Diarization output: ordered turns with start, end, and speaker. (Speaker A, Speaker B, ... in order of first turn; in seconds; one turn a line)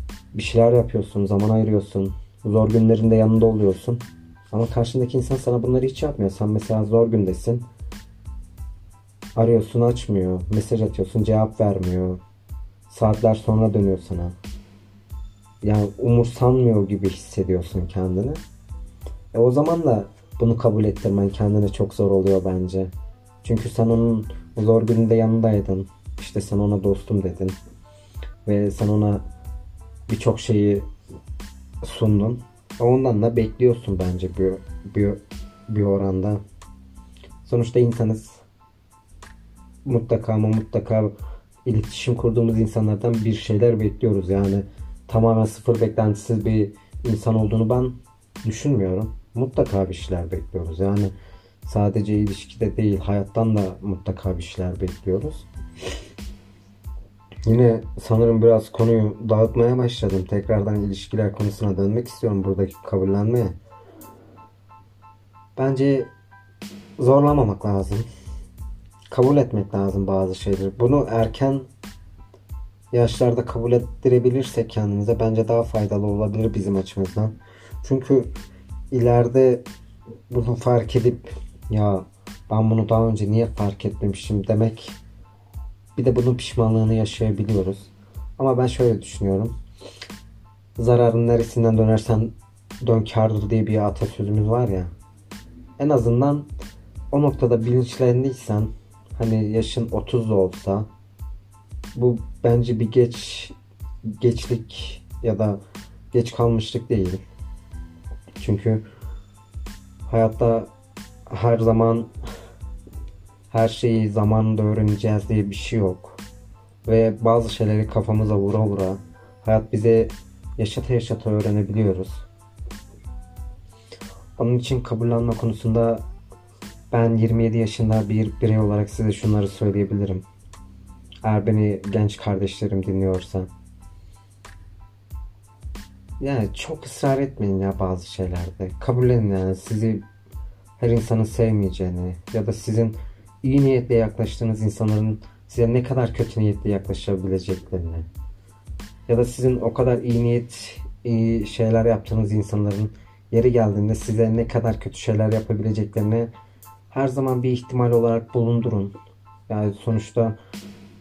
Speaker A: 0.3-7.7
Speaker A: 9.3-12.2
Speaker A: 12.9-14.3
Speaker A: 15.6-18.4
Speaker A: 19.3-22.9
Speaker A: 23.4-27.6
Speaker A: 28.4-29.2
Speaker A: 30.1-30.9
Speaker A: 31.8-36.4
Speaker A: 37.4-38.4
Speaker A: 39.8-41.1
Speaker A: 41.6-51.1
Speaker A: 51.6-55.5
Speaker A: 57.5-63.6
Speaker A: 65.5-66.1
Speaker A: 67.0-68.1
Speaker A: 69.1-71.7
Speaker A: 72.9-78.3
Speaker A: 78.9-79.6
Speaker A: 80.3-85.0
Speaker A: 86.0-89.5
Speaker A: 90.8-94.9
Speaker A: 95.8-96.5
Speaker A: 97.1-100.9
Speaker A: 101.9-103.5
Speaker A: 104.2-105.6
Speaker A: 106.1-107.2
Speaker A: 108.4-108.8
Speaker A: 110.1-110.7
Speaker A: 111.3-112.1
Speaker A: 113.5-116.2
Speaker A: 116.8-122.2
Speaker A: 124.4-126.0
Speaker A: 126.9-130.2
Speaker A: 131.2-133.5
Speaker A: 136.2-140.1
Speaker A: 140.8-148.1
Speaker A: 149.1-156.3
Speaker A: 156.9-158.9
Speaker A: 159.5-160.4